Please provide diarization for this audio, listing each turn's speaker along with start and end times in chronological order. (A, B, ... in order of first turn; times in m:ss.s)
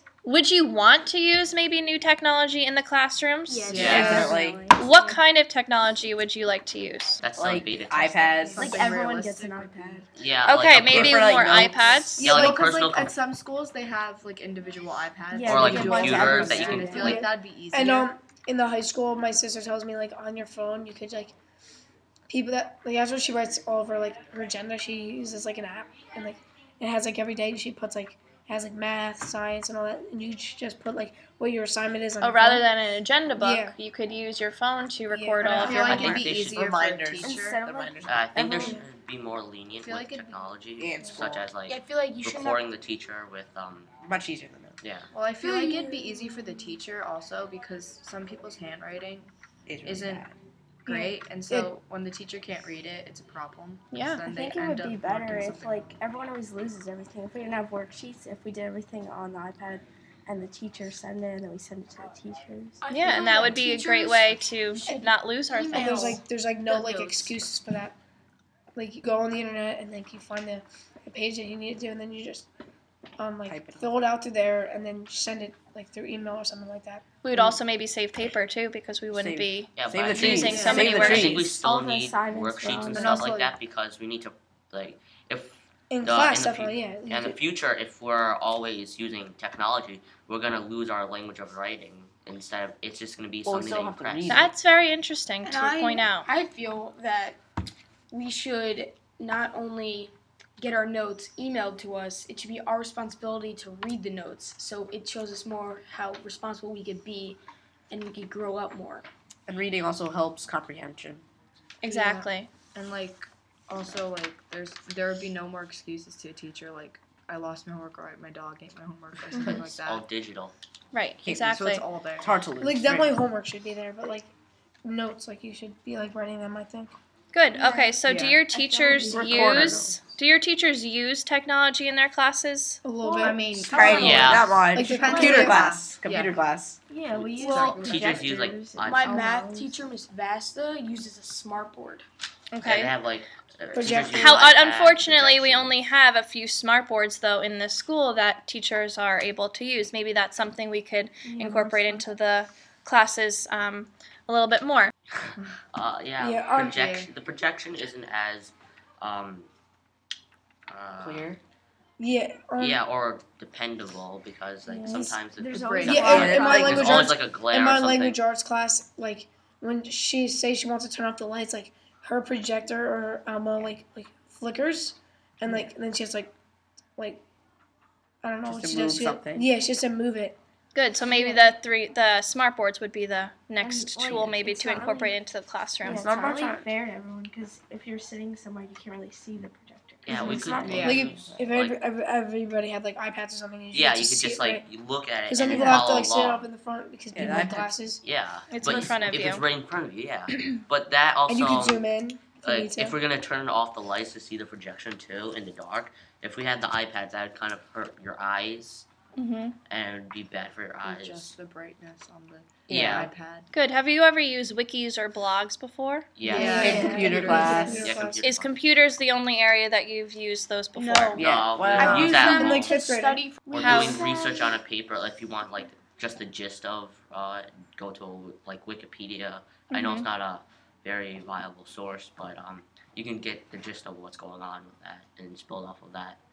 0:00.2-0:07.2 A
0:03.4-0:05.1 B
0:03.7-0:04.2 C
0:03.7-0:04.2 D
0:03.8-0:04.6 E
0:04.4-0:05.2 F
0:07.2-0:08.6 D
0:07.4-0:08.7 E
0:08.6-0:10.1 C
0:08.6-0:10.1 F
0:10.1-0:11.4 D
0:10.4-0:12.3 A
0:10.9-0:11.8 E
0:12.1-0:13.0 G
0:12.2-0:13.1 D
0:12.3-0:18.1 C
0:15.3-0:17.2 F
0:15.4-0:17.3 D
0:16.9-0:21.3 G
0:22.3-0:32.7 G
0:32.2-0:36.2 A
0:33.4-0:33.7 G
0:35.1-0:35.6 G
0:35.4-0:37.7 C
0:35.5-0:36.0 B
0:35.6-0:38.2 E
0:36.0-0:36.7 D
0:37.2-0:38.8 F
0:38.0-0:43.9 D
0:39.8-0:40.4 C
0:40.8-0:41.5 E
0:41.6-0:42.6 B
0:44.0-0:44.8 E
0:44.8-0:45.1 D
0:45.1-0:49.3 C
0:45.4-0:46.5 B
0:49.7-0:50.3 E
0:49.8-0:50.3 C
0:50.8-0:55.9 C
0:50.9-0:51.7 G
0:53.9-0:54.2 A
0:54.2-1:02.8 F
1:02.8-1:04.6 B
1:02.9-1:06.2 A
1:05.5-1:06.2 B
1:05.7-1:08.0 G
1:06.6-1:07.5 C
1:08.7-1:12.5 G
1:13.2-1:17.0 G
1:13.4-1:14.0 E
1:17.2-1:21.3 A
1:19.1-1:21.4 E
1:19.8-1:34.5 D
1:20.3-1:21.2 C
1:20.5-1:23.3 F
1:22.7-1:23.6 C
1:25.9-1:27.4 G
1:33.4-1:34.5 E
1:34.3-1:36.3 A
1:35.4-1:37.4 B
1:38.1-1:49.1 B
1:49.5-1:51.2 E
1:51.8-1:52.5 A
1:51.8-2:00.0 C
1:59.5-2:00.5 D
2:00.9-2:01.8 A
2:01.2-2:01.6 E
2:01.4-2:02.3 C
2:02.2-2:03.2 E
2:02.6-2:04.3 G
2:04.8-2:06.9 G
2:07.3-2:12.8 A
2:07.5-2:09.9 F
2:08.0-2:08.5 C
2:09.0-2:10.0 E
2:12.8-2:13.4 G
2:13.0-2:13.8 F
2:13.2-2:16.3 C
2:13.7-2:16.8 E
2:13.8-2:14.4 B
2:13.9-2:15.6 G
2:14.0-2:14.5 D
2:15.0-2:15.5 F
2:16.9-2:19.8 F
2:17.1-2:18.2 C
2:17.4-2:17.7 B
2:17.8-2:19.3 D
2:18.9-2:22.0 B
2:22.5-2:22.9 A
2:22.6-2:25.8 D
2:23.7-2:24.0 B
2:23.7-2:24.5 G
2:24.1-2:34.9 A
2:31.2-2:32.0 F
2:35.2-2:39.5 D
2:36.2-2:36.7 G
2:36.7-2:37.1 C
2:40.7-2:41.3 D
2:41.0-2:41.4 E
2:42.0-2:42.8 G
2:42.6-2:48.2 D
2:44.6-2:46.2 F
2:45.4-2:46.8 B
2:45.6-2:46.6 C
2:45.8-2:56.3 G
2:46.1-2:47.0 E
2:57.0-2:57.2 G
2:58.2-3:00.4 G
2:58.4-2:59.5 E
3:00.7-3:06.0 A
3:01.0-3:01.6 F
3:03.6-3:05.2 F
3:05.8-3:11.3 F
3:05.9-3:06.7 E
3:10.0-3:11.8 D
3:10.6-3:11.0 C
3:10.6-3:10.9 E
3:10.8-3:14.6 G
3:13.7-3:16.5 D
3:15.3-3:18.0 G
3:17.1-3:17.7 E
3:18.0-3:21.9 D
3:18.5-3:19.4 A
3:21.3-3:23.0 G
3:22.4-3:28.9 D
3:29.2-3:29.6 A
3:29.7-3:31.3 D
3:30.8-3:33.5 C
3:32.7-3:33.0 E
3:32.7-3:33.1 D
3:33.5-3:36.9 A
3:36.2-3:36.7 D
3:36.3-3:37.5 C
3:36.3-3:37.7 B
3:36.3-3:38.2 G
3:36.6-3:37.9 E
3:37.6-3:38.5 D
3:38.2-3:41.2 A
3:40.7-3:44.6 B
3:41.1-3:42.2 E
3:41.2-3:42.7 D
3:41.8-3:43.3 G
3:43.5-3:56.2 D
3:43.6-3:44.0 A
3:49.7-3:50.1 A